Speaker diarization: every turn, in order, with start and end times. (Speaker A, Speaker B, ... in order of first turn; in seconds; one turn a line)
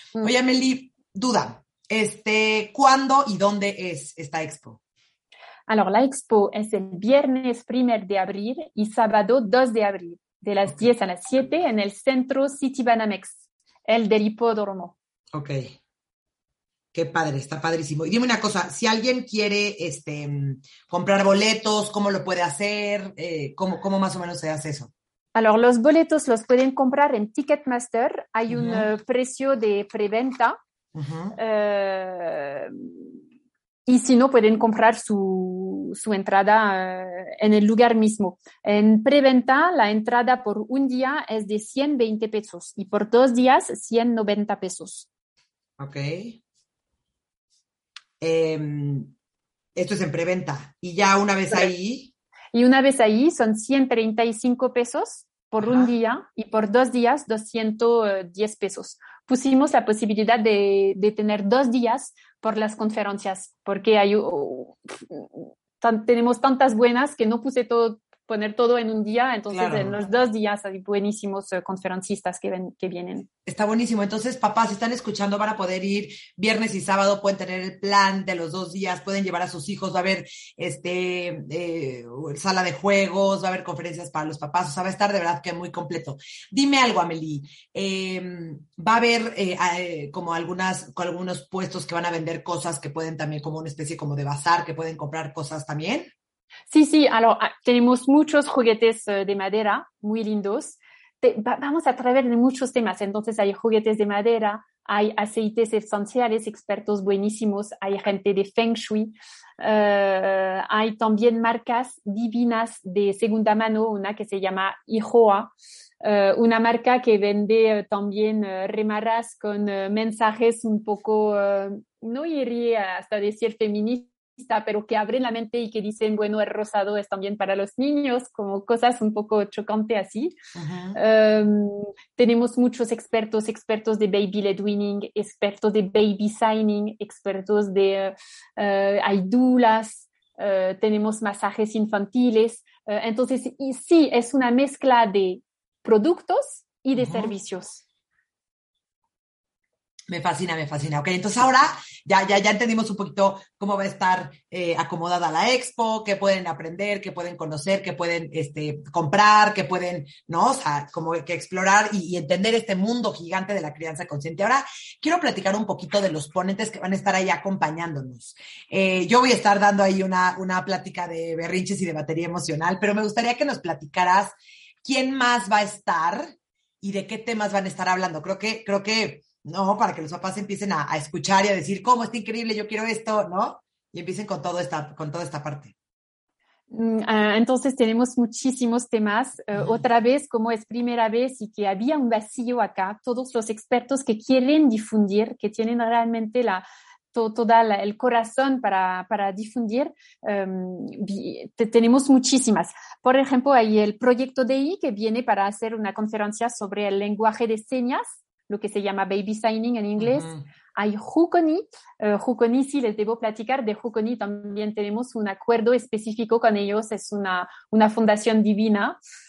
Speaker A: 0.2-4.8
Speaker B: 5.7-14.9
Speaker A: 15.3-15.8
Speaker A: 16.9-24.9
Speaker B: 25.3-30.6
Speaker A: 28.5-28.9
Speaker A: 30.9-31.4
Speaker B: 31.3-33.0
Speaker B: 33.9-45.1
Speaker A: 45.8-46.4
Speaker A: 48.2-49.1
Speaker A: 49.7-52.1
Speaker B: 52.5-73.3
Speaker A: 55.6-55.9
Speaker A: 69.5-70.0
Speaker A: 73.5-96.1
Speaker B: 96.7-130.3
Speaker A: 130.5-131.0
Speaker B: 130.9-147.8
Speaker A: 146.9-147.3
Speaker A: 150.1-185.7
Speaker B: 186.7-219.0
Speaker A: 210.0-210.4